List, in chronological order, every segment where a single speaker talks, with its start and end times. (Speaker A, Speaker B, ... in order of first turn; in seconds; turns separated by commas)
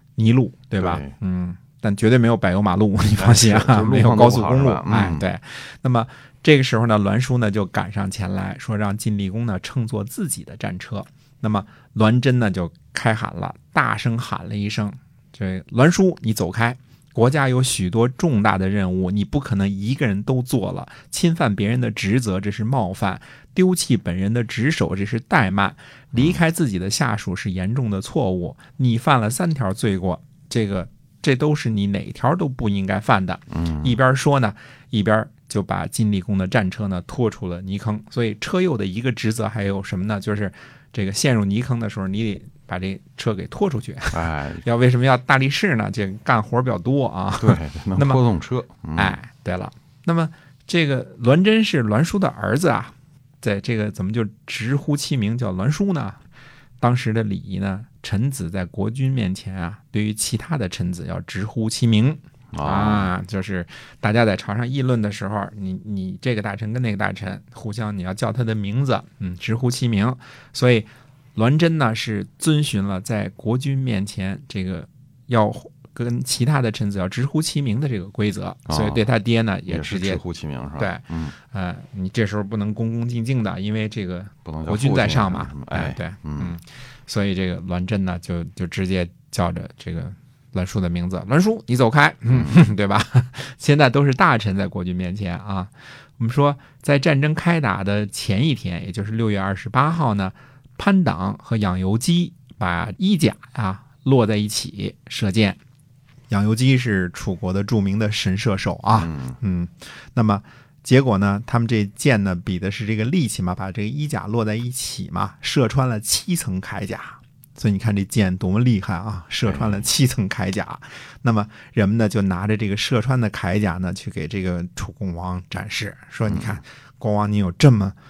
Speaker A: 0.2-48.2, Speaker B: 0.8-1.1, Speaker B: 3.2-5.2, Speaker B: 26.1-26.4, Speaker B: 33.5-34.0, Speaker B: 44.1-44.6, Speaker B: 47.4-49.2, Speaker A: 48.9-56.2, Speaker A: 56.8-80.2, Speaker B: 62.5-63.1, Speaker B: 78.7-79.0, Speaker B: 79.7-81.3, Speaker A: 80.8-105.6, Speaker B: 84.5-86.6, Speaker B: 92.3-92.6, Speaker A: 106.3-127.9, Speaker B: 109.0-109.4, Speaker B: 119.5-119.8, Speaker B: 126.3-126.6